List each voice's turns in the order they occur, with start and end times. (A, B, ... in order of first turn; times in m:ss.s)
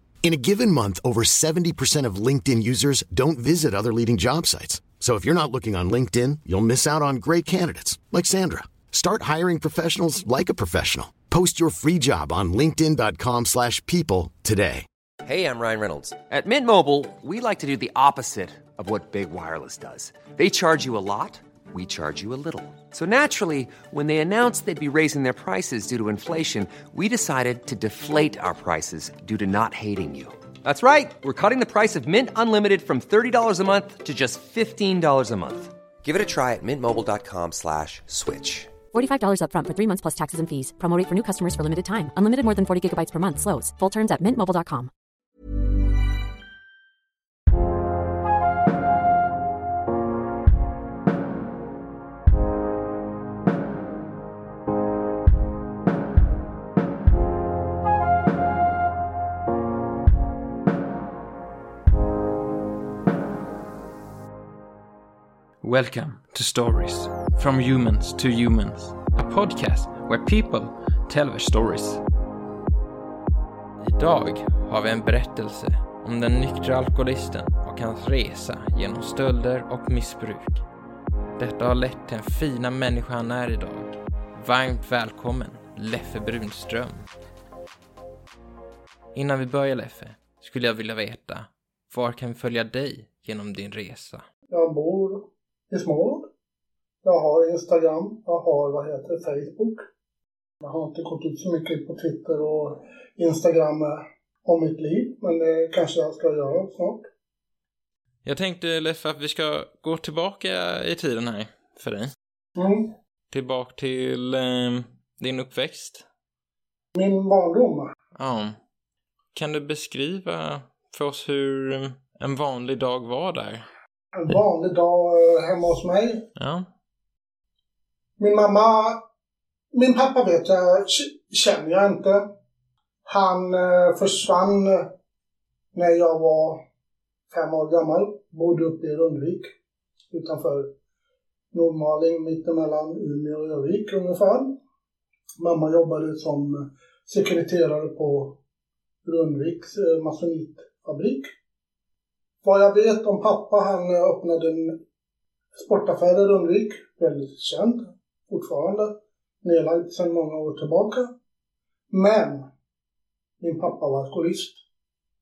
0:00.2-0:14.9 A
0:15.2-0:38.7 B
0:38.9-0:44.9 C
1:05.6-1:12.0 D
1:13.8-1:20.6 D
1:21.4-1:27.0 D
1:29.2-1:34.2 D
1:34.5-1:36.3 E
1:37.0-1:39.8 E
1:40.6-1:47.1 E
1:48.2-1:52.1 D
1:52.6-1:52.9 E
1:53.3-1:56.0 D
1:57.0-1:57.9 E
1:58.2-1:58.6 D
1:59.3-2:03.7 D
2:04.2-2:06.3 E
2:06.4-2:06.7 D
2:08.2-2:09.0 E
2:09.7-2:12.3 E
2:13.1-2:14.9 E
2:15.7-2:16.6 E
2:17.3-2:19.5 E
2:20.1-2:20.7 E
2:21.5-2:24.6 E
2:25.4-2:28.4 E
2:29.0-2:31.3 E
2:32.4-2:34.8 E
2:35.6-2:41.1 E
2:41.9-2:42.5 E
2:43.4-2:44.6 E